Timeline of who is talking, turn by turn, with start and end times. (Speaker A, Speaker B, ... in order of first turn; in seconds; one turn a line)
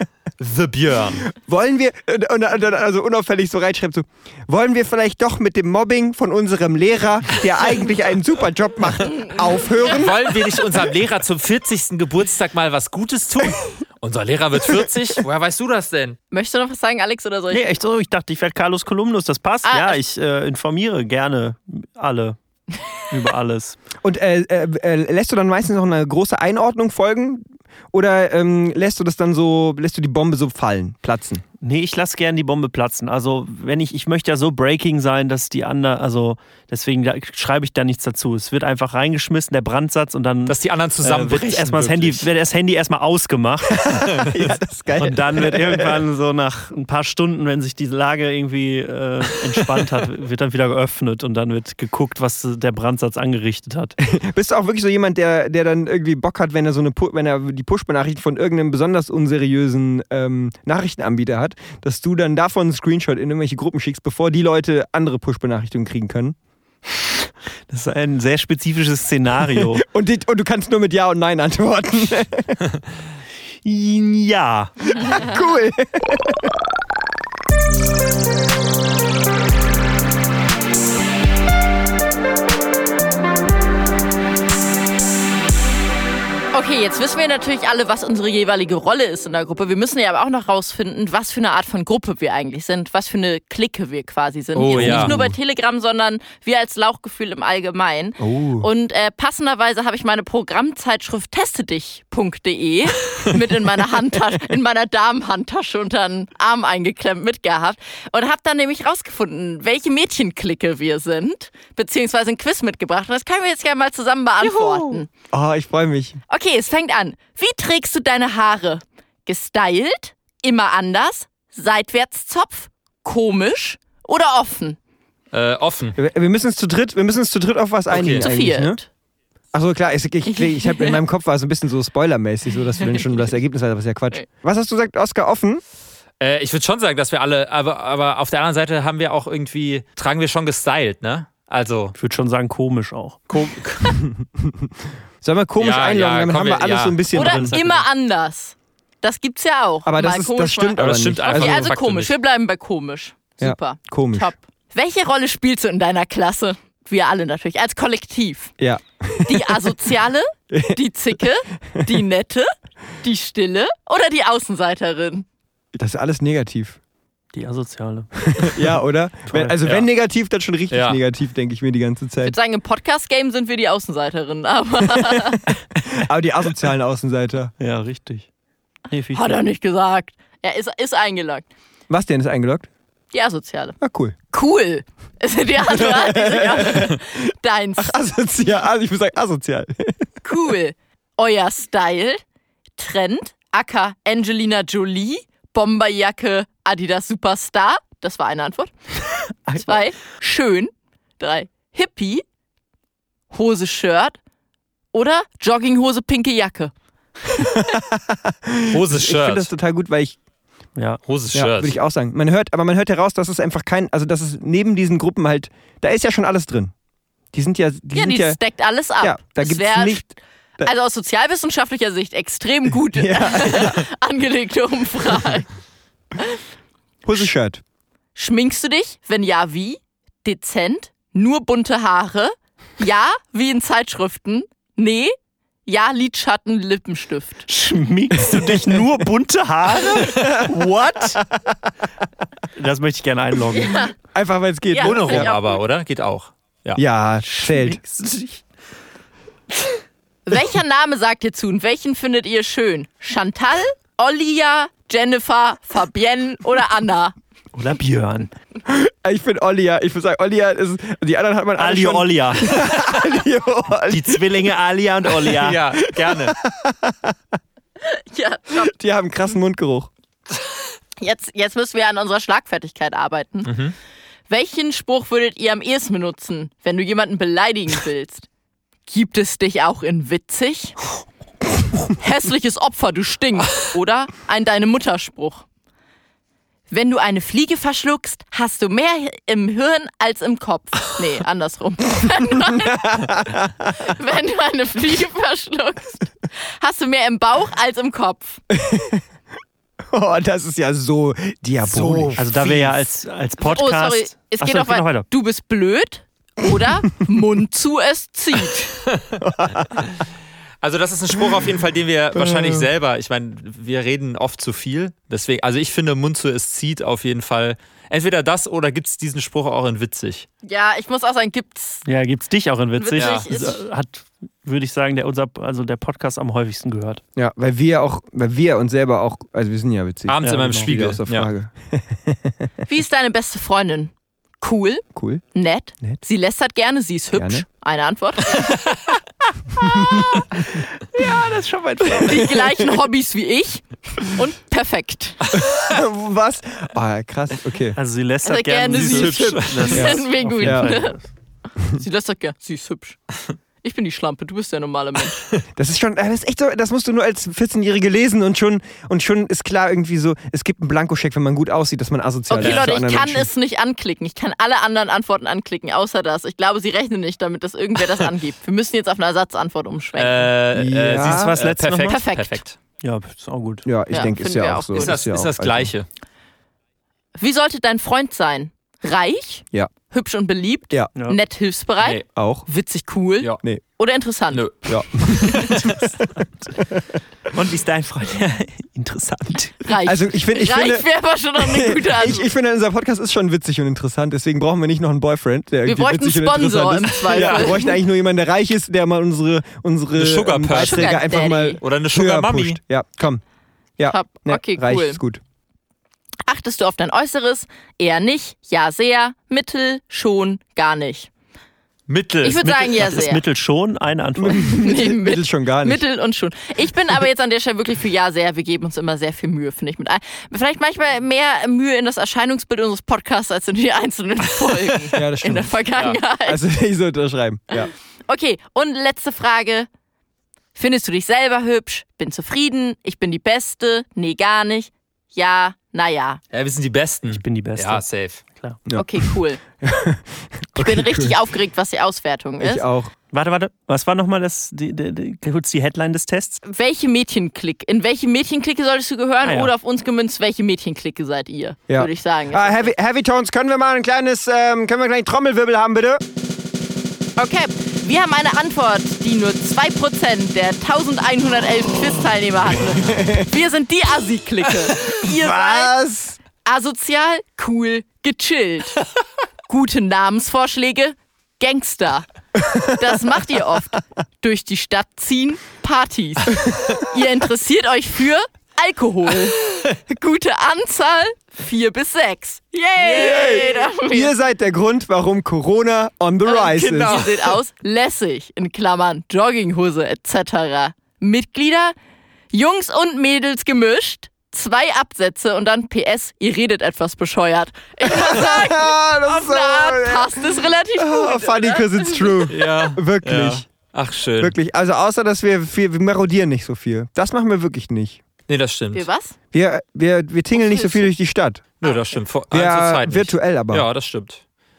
Speaker A: 0.4-1.3
Speaker B: 1.3-10.4
Speaker A: 9.8-16.2
Speaker C: 16.3-17.7
Speaker D: 17.5-22.4
Speaker C: 19.6-20.0
Speaker D: 23.1-23.8
Speaker B: 24.0-31.4
Speaker D: 31.6-44.1
Speaker A: 40.5-42.3
Speaker B: 43.9-46.0
Speaker A: 44.2-44.4
Speaker D: 45.0-54.0
Speaker B: 54.0-66.4
Speaker D: 67.7-69.8
Speaker B: 69.8-72.6
Speaker D: 73.6-74.7
Speaker B: 75.0-76.6
Speaker C: 86.5-115.1
Speaker A: 94.6-95.2
Speaker B: 94.7-95.3
Speaker B: 98.2-98.7
Speaker B: 114.6-116.2
Speaker C: 116.3-124.8
Speaker A: 125.3-126.0
Speaker B: 126.0-128.8
Speaker A: 127.9-128.3
Speaker C: 128.0-128.9
Speaker B: 129.5-135.6
Speaker C: 130.4-131.0
Speaker A: 136.2-141.9
Speaker D: 141.9-143.2
Speaker A: 143.3-144.0
Speaker B: 144.0-147.5
Speaker A: 145.6-147.1
Speaker C: 147.1-158.5
Speaker D: 147.1-147.8
Speaker B: 149.9-151.7
Speaker A: 150.8-152.1
Speaker B: 153.4-154.3
Speaker B: 158.6-159.8
Speaker C: 159.3-165.3
Speaker B: 160.5-160.8
Speaker B: 165.7-166.8
Speaker D: 167.3-168.7
Speaker B: 168.3-172.4
Speaker D: 169.3-169.6
Speaker A: 169.6-169.9
Speaker A: 170.7-171.0
Speaker C: 172.2-175.5
Speaker B: 175.1-177.5
Speaker D: 177.6-178.3
Speaker D: 178.9-179.4
Speaker C: 179.1-181.5
Speaker B: 181.9-182.7
Speaker C: 183.1-183.8
Speaker B: 183.8-184.2
Speaker C: 184.3-188.0
Speaker B: 185.7-187.2
Speaker B: 187.8-190.1
Speaker C: 190.2-192.2
Speaker C: 192.8-198.7
Speaker C: 199.5-202.2
Speaker C: 203.3-204.2
Speaker C: 204.9-206.7
Speaker B: 207.4-210.2
Speaker A: 208.7-209.5
Speaker D: 210.8-211.0
Speaker A: 211.0-211.8
Speaker B: 211.3-216.7
Speaker B: 217.3-218.4
Speaker C: 217.9-225.5
Speaker B: 219.0-220.0
Speaker B: 222.9-223.8
Speaker B: 227.1-227.6
Speaker C: 228.2-235.2
Speaker C: 235.7-237.4
Speaker D: 237.5-241.2
Speaker B: 240.0-241.6
Speaker D: 242.6-243.9
Speaker C: 243.6-243.9
Speaker B: 244.1-245.3
Speaker C: 244.7-245.6
Speaker A: 244.8-246.8
Speaker B: 246.8-247.8
Speaker D: 247.4-248.4
Speaker C: 250.3-257.1
Speaker D: 257.5-258.3
Speaker B: 258.7-264.2
Speaker D: 261.6-262.6
Speaker D: 263.9-265.6
Speaker A: 265.4-266.4
Speaker B: 265.8-267.2
Speaker C: 267.8-268.7
Speaker B: 268.5-269.9
Speaker C: 271.0-273.6
Speaker A: 273.4-273.8
Speaker C: 274.3-278.3
Speaker C: 278.9-280.8
Speaker C: 281.9-285.5
Speaker C: 286.7-293.1
Speaker B: 292.6-293.7
Speaker C: 293.8-298.4
Speaker B: 298.5-299.0
Speaker B: 299.9-302.3
Speaker A: 301.7-302.8
Speaker D: 301.8-305.1
Speaker C: 303.4-308.8
Speaker A: 308.9-309.9
Speaker B: 309.2-309.8
Speaker A: 310.6-320.3
Speaker B: 312.2-312.7
Speaker C: 320.4-321.9
Speaker D: 321.9-327.0
Speaker C: 322.8-323.6
Speaker A: 323.0-323.3
Speaker B: 327.2-332.5
Speaker A: 330.1-331.3
Speaker D: 330.2-330.8
Speaker C: 332.7-338.6
Speaker B: 334.9-335.2
Speaker B: 337.1-337.4
Speaker B: 339.6-340.0
Speaker D: 340.5-342.8
Speaker C: 341.9-345.2
Speaker B: 345.3-347.8
Speaker D: 347.8-351.0
Speaker C: 348.2-351.0
Speaker A: 348.7-349.9
Speaker B: 349.7-350.7
Speaker C: 351.6-353.0
Speaker C: 353.6-355.2
Speaker B: 355.6-363.3
Speaker C: 362.3-370.3
Speaker A: 362.4-362.7
Speaker A: 370.0-372.6
Speaker B: 370.5-371.3
Speaker D: 371.0-372.0
Speaker C: 371.8-372.4
Speaker D: 372.8-373.7
Speaker B: 373.6-375.7
Speaker C: 373.9-375.0
Speaker A: 374.8-375.9
Speaker C: 377.2-384.5
Speaker B: 382.1-382.5
Speaker A: 384.3-385.8
Speaker B: 384.7-385.8
Speaker D: 387.3-389.7
Speaker C: 389.6-392.3
Speaker B: 389.8-403.2
Speaker C: 395.6-397.8
Speaker A: 397.1-397.6
Speaker A: 400.0-401.0
Speaker C: 400.5-401.6
Speaker A: 401.6-402.6
Speaker B: 403.8-405.2
Speaker C: 403.9-405.0
Speaker C: 406.3-411.1
Speaker A: 411.9-412.5
Speaker C: 412.2-413.2
Speaker D: 412.4-414.6
Speaker B: 414.2-415.8
Speaker C: 414.4-426.4
Speaker B: 424.9-425.6
Speaker B: 426.2-427.7
Speaker C: 428.1-429.7
Speaker C: 430.6-436.2
Speaker A: 436.3-438.2
Speaker D: 437.1-438.6
Speaker B: 438.7-441.2
Speaker C: 438.8-439.4
Speaker C: 440.6-442.6
Speaker B: 442.4-442.9
Speaker D: 443.1-446.4
Speaker C: 446.4-452.7
Speaker D: 449.2-449.5
Speaker B: 451.7-456.0
Speaker C: 457.2-465.8
Speaker B: 462.7-463.3
Speaker B: 465.0-466.2
Speaker C: 466.4-468.8
Speaker C: 469.5-484.1
Speaker B: 472.4-472.7
Speaker B: 482.8-487.1
Speaker C: 486.2-491.8
Speaker A: 486.7-487.2
Speaker C: 492.3-502.3
Speaker B: 497.9-503.4
Speaker A: 502.3-504.4
Speaker B: 504.2-508.0
Speaker A: 508.3-508.9
Speaker C: 508.7-509.1
Speaker B: 509.3-511.5
Speaker C: 510.4-510.9
Speaker A: 511.6-514.2
Speaker B: 512.3-513.7